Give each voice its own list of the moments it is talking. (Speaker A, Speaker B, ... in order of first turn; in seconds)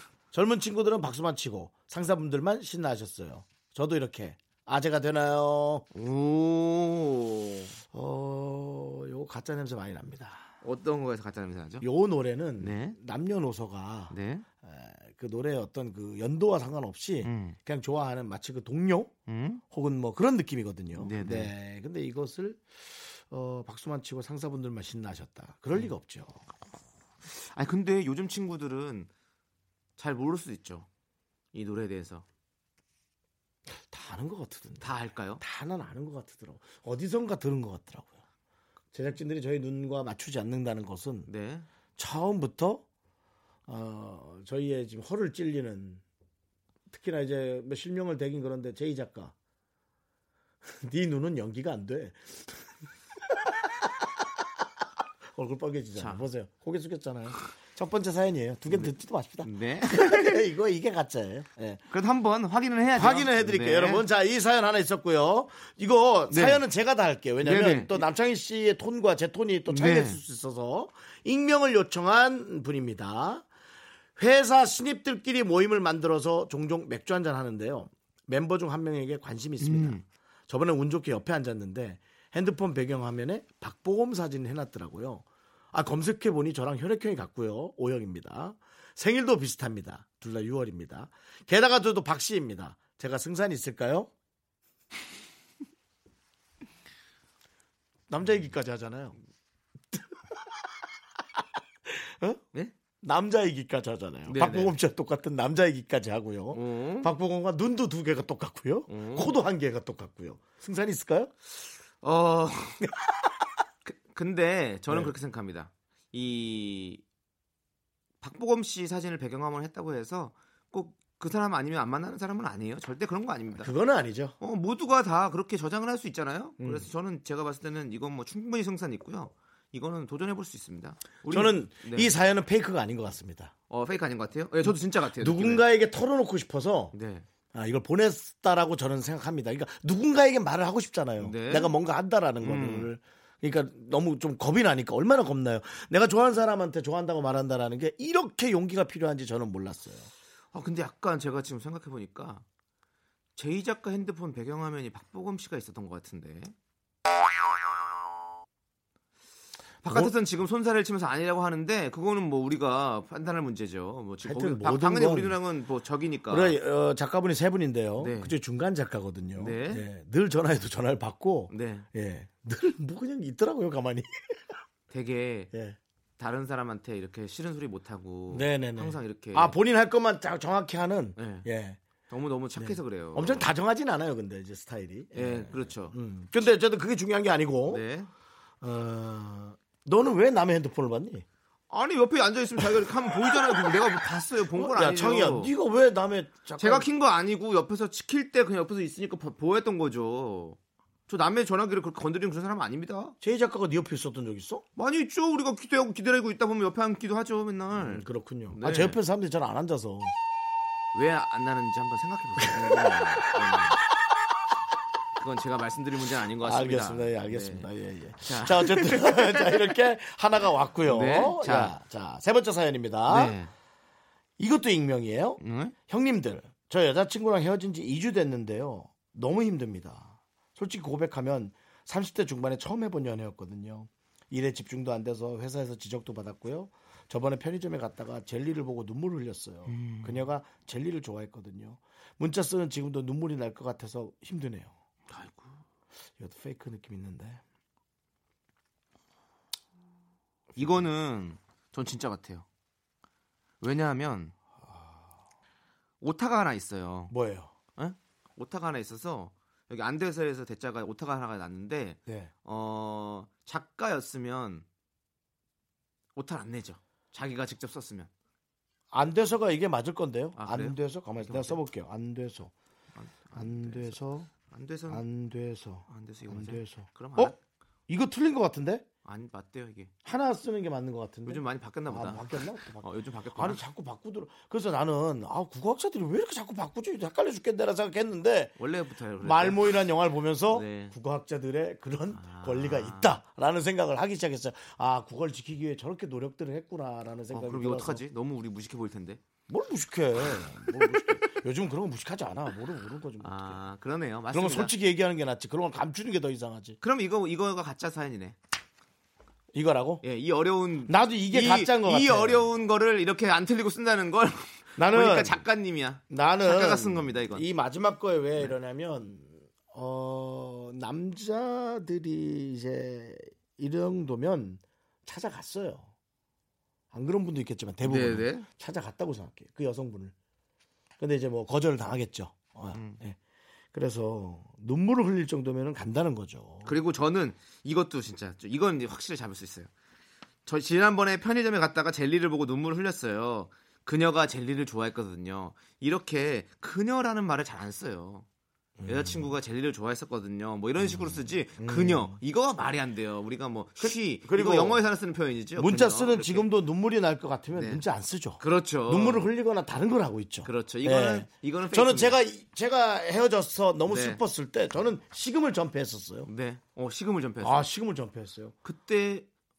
Speaker A: 0.3-5.8, 7.9-10.5, 11.8-19.1, 19.7-26.4, 33.8-38.2, 38.9-41.3, 42.0-42.8, 43.7-46.0, 46.9-49.3, 50.6-52.4, 53.3-54.2, 55.3-61.8, 62.9-73.5, 74.2-94.1, 98.1-99.2, 99.9-100.5, 101.9-102.4, 103.0-111.3, 123.6-124.3, 126.6-126.9, 131.3-133.5, 134.6-136.9, 137.5-150.1, 159.8-160.1, 164.2-165.4, 166.3-174.4, 175.5-175.8, 178.3-181.8, 182.6-187.8, 188.6-191.2, 193.2-193.8, 194.5-196.9, 203.2-204.6, 207.7-210.1, 212.5-213.3, 216.4-223.3, 224.4-244.7, 246.2-247.4, 254.6-255.1, 257.1-257.5, 262.1-262.3, 268.9-272.5, 273.3-274.3, 274.9-277.3, 277.9-278.9, 280.0-288.6, 289.2-298.0, 299.5-303.6, 304.3-306.8, 309.5-310.0, 310.9-312.5, 314.8-315.4, 316.1-325.9, 326.9-330.1, 331.0-333.2, 333.7-336.8, 348.8-349.3, 351.6-352.2, 353.8-354.8, 355.6-366.3, 367.4-368.5
Speaker B: 5.9-7.8, 10.6-11.8, 12.6-13.0, 14.1-14.4, 17.2-17.6, 19.3-19.6, 21.0-21.5, 27.2-29.1, 30.0-30.9, 31.5-32.2, 34.8-35.4, 41.3-41.6, 55.9-56.2, 59.4-60.4, 61.9-64.0, 66.3-66.6, 67.4-68.0, 69.7-70.2, 79.6-80.0, 104.3-104.7, 106.5-107.1, 108.9-109.3, 112.0-112.9, 113.8-117.0, 118.2-123.7, 124.4-132.1, 133.7-135.7, 136.9-137.2, 141.2-141.7, 142.4-142.9, 150.5-152.4, 153.4-156.5, 159.8-166.6, 168.0-168.3, 169.3-169.8, 171.5-171.9, 174.9-175.5, 176.2-179.5, 181.2-181.5, 182.1-183.5, 185.1-185.9, 187.7-188.1, 191.7-195.5, 196.6-203.2, 204.8-209.0, 210.9-213.8, 215.2-217.7, 218.2-219.5, 220.9-221.7, 223.1-223.5, 225.4-225.7, 239.7-240.2, 245.1-245.6, 250.6-252.4, 253.6-254.3, 256.0-257.1, 257.8-264.6, 266.1-268.1, 270.4-271.6, 272.9-275.0, 275.9-277.4, 279.0-279.9, 281.2-283.6, 288.6-289.7, 290.5-290.9, 292.1-293.2, 297.3-299.2, 303.2-304.7, 306.8-308.4, 310.0-317.4, 327.8-328.5, 332.7-333.0, 336.6-339.7, 340.4-348.2, 348.9-356.5, 357.5-357.8, 358.4-359.2, 360.4-362.2, 363.9-364.2, 366.3-367.7, 368.6-369.3